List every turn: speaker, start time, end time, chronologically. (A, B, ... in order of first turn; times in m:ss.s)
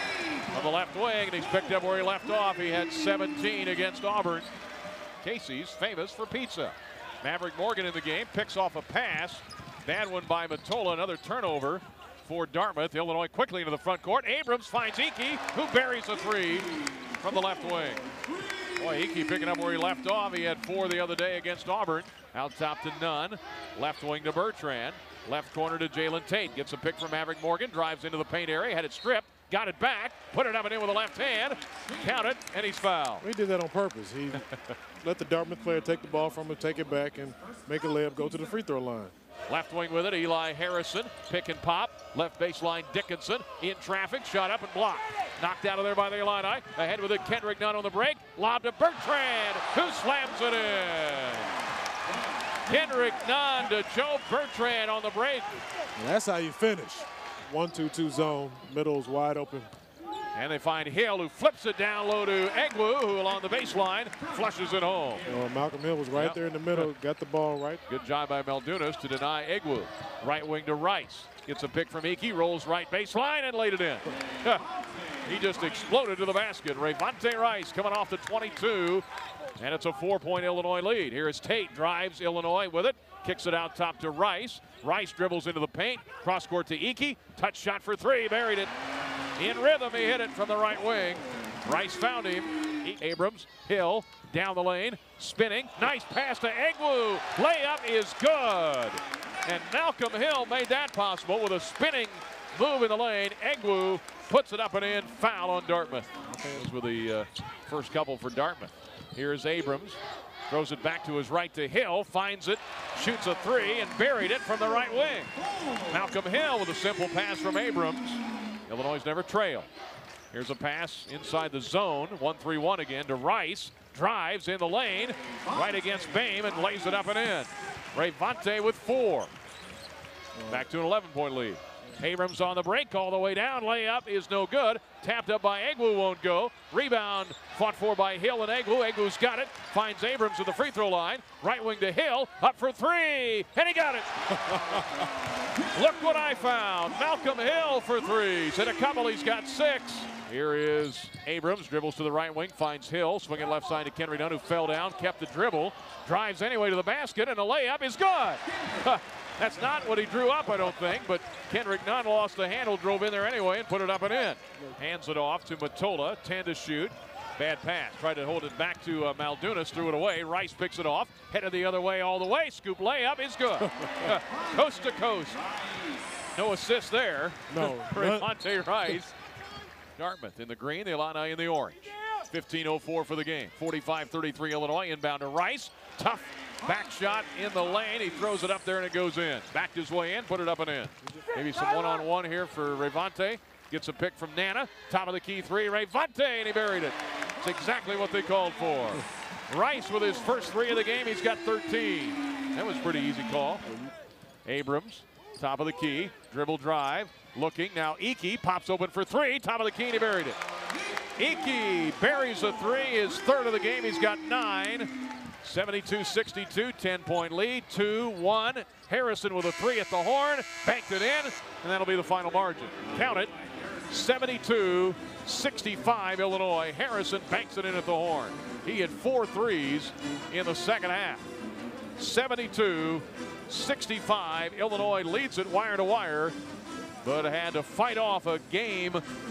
0:00.5-0:04.5 A
0:05.2-0:18.0 A
0:18.8-0:33.2 A
0:33.2-0:34.5 B
0:35.0-0:39.1 B
0:39.5-0:51.6 A
0:52.7-0:55.6 A
0:56.0-0:59.7 B
1:00.3-1:05.2 A
1:05.3-1:07.8 B
1:06.2-1:06.9 A
1:07.9-1:14.6 A
1:15.2-1:19.0 A
1:19.6-1:28.7 A
1:29.4-1:55.3 A
1:46.3-1:46.6 B
1:55.9-1:59.7 A
2:00.3-2:09.3 A
2:10.4-2:10.6 B
2:10.5-2:25.0 A
2:25.6-2:55.4 A
2:56.4-2:59.1 A
2:57.5-2:58.3 B
3:00.0-3:23.6 A
3:24.4-3:30.4 A
3:31.2-3:34.9 A
3:35.4-3:43.3 A
3:43.9-3:51.2 A
3:52.0-3:56.4 A
3:57.0-3:59.0 A